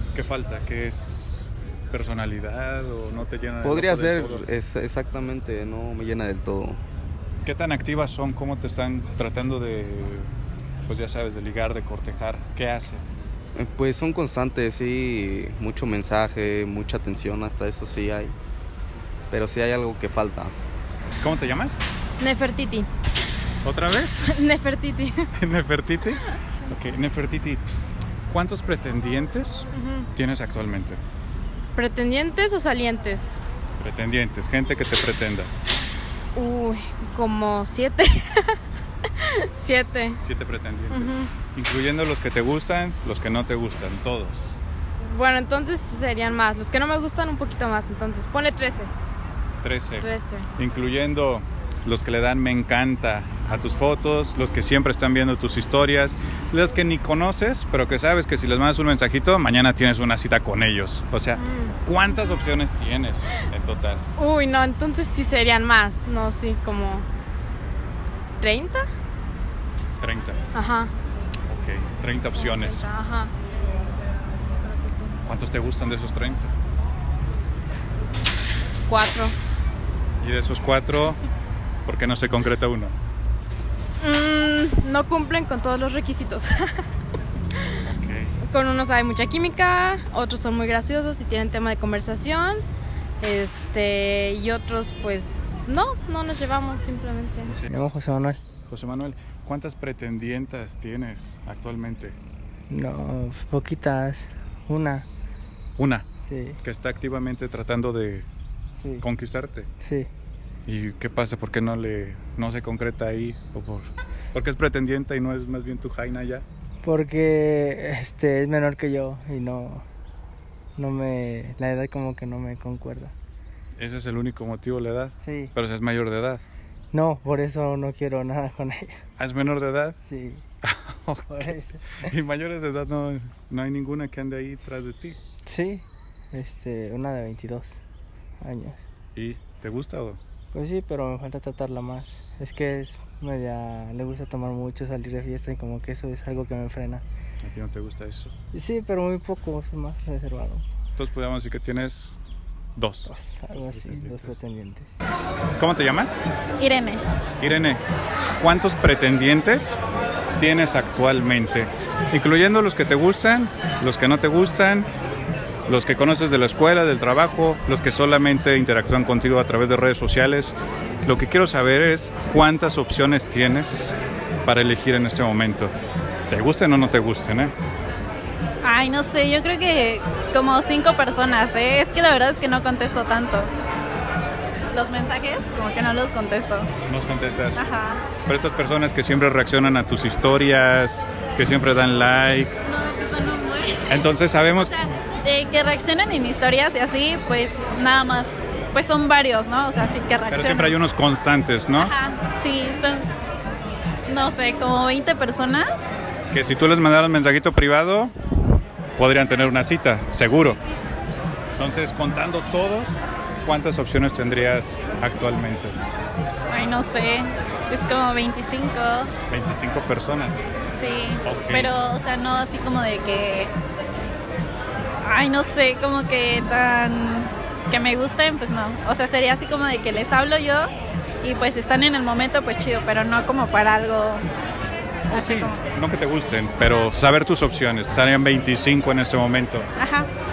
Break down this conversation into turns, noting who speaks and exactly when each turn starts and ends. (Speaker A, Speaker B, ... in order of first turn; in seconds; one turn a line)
Speaker A: 0.1-4.5
Speaker B: 3.6-6.8
Speaker A: 7.4-10.3
Speaker A: 10.9-13.0
Speaker B: 13.6-18.4
Speaker B: 19.3-20.5
Speaker A: 21.2-21.8
Speaker C: 22.2-22.9
Speaker A: 23.6-24.2
Speaker C: 24.2-25.2
Speaker A: 25.4-27.6
Speaker A: 28.3-31.0
Speaker C: 29.8-30.1
Speaker C: 31.8-33.4
Speaker A: 33.8-35.5
Speaker C: 36.4-38.6
Speaker C: 39.3-40.2
Speaker A: 39.7-44.6
Speaker C: 40.9-41.3
Speaker C: 45.0-48.9
Speaker A: 49.6-64.0
Speaker C: 50.0-50.5
Speaker C: 61.4-61.7
Speaker C: 64.2-67.1
Speaker C: 68.4-68.8
Speaker A: 70.0-70.4
Speaker C: 70.5-70.9
Speaker A: 71.5-72.9
Speaker C: 72.3-73.3
Speaker C: 74.6-75.2
Speaker A: 75.2-76.5
Speaker C: 78.9-79.3
Speaker A: 80.2-81.2
Speaker A: 81.9-83.0
Speaker C: 84.0-86.5
Speaker A: 87.8-88.4
Speaker C: 88.4-92.6
Speaker C: 93.2-97.5
Speaker D: 97.7-98.4
Speaker A: 98.7-102.2
Speaker D: 102.7-105.1
Speaker A: 105.8-106.0
Speaker D: 106.2-106.6
Speaker A: 106.6-108.3
Speaker D: 108.8-109.1
Speaker A: 109.0-109.7
Speaker D: 109.8-110.1
Speaker A: 110.7-116.5
Speaker D: 116.8-119.9
Speaker D: 120.8-123.1
Speaker A: 123.8-126.5
Speaker D: 125.2-125.5
Speaker D: 126.9-129.0
Speaker A: 129.2-130.0
Speaker D: 130.0-130.4
Speaker A: 130.6-135.2
Speaker D: 131.3-132.1
Speaker D: 135.5-137.8
Speaker D: 138.4-138.8
Speaker A: 139.2-140.2
Speaker D: 140.5-147.0
Speaker A: 147.4-148.3
Speaker D: 148.5-150.6
Speaker A: 151.0-152.2
Speaker A: 152.8-154.4
Speaker D: 153.1-154.9
Speaker A: 155.6-156.2
Speaker E: 156.6-157.0
Speaker A: 157.4-157.8
Speaker A: 158.4-159.8
Speaker A: 160.4-164.9
Speaker A: 165.7-175.7
Speaker A: 176.3-177.5
Speaker E: 178.6-183.5
Speaker E: 184.7-186.7
Speaker A: 186.9-187.6
Speaker E: 187.6-188.0
Speaker A: 188.3-192.6
Speaker E: 192.7-193.8
Speaker A: 193.9-194.8
Speaker E: 194.6-200.8
Speaker A: 200.3-201.9
Speaker E: 201.8-203.1
Speaker E: 204.1-205.9
Speaker A: 206.3-208.1
Speaker A: 209.0-210.6
Speaker A: 211.6-215.8
Speaker E: 216.5-219.1
Speaker A: 219.3-220.4
Speaker E: 220.6-223.5
Speaker A: 221.2-221.7
Speaker E: 225.0-230.7
Speaker E: 231.2-234.2
Speaker A: 235.1-239.7
Speaker E: 235.1-235.6
Speaker E: 239.8-240.1